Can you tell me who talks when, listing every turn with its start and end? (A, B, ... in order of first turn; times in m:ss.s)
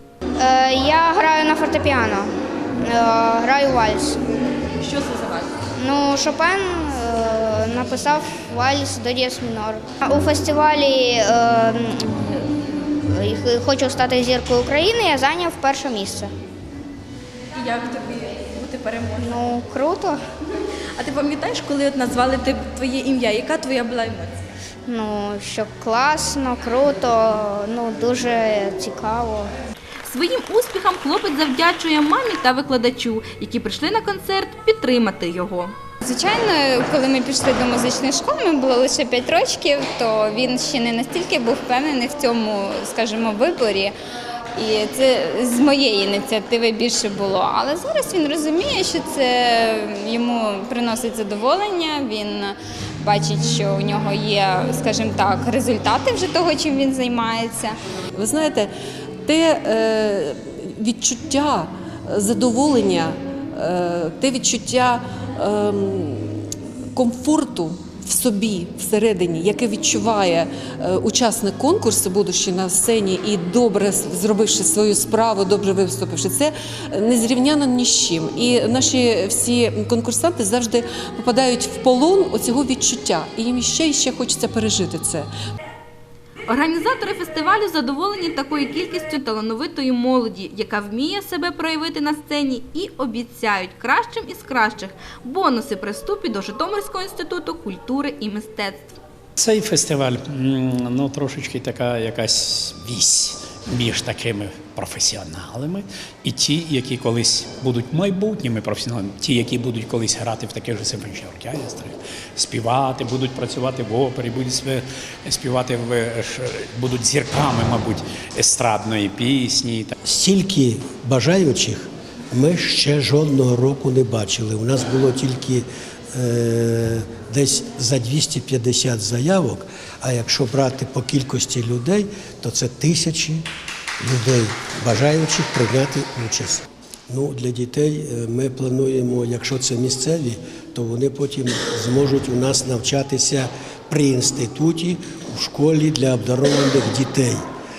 0:00.4-0:02.3 A
0:02.8-0:04.2 A
0:04.8-0:05.5 B
0:05.8-0:16.3 A
0:17.6-0:19.4 B
0:19.2-0:20.2 A
0:21.0-0:24.4 B
0:24.9-0:29.5 A
0:30.0-0:35.7 B
0:36.0-0:43.9 C
0:44.6-0:57.8 C
0:58.2-0:58.7 D
0:59.2-1:25.3 D
1:26.5-1:39.0 B
1:39.4-1:59.9 E
2:00.0-2:13.4 F
2:14.0-2:27.5 F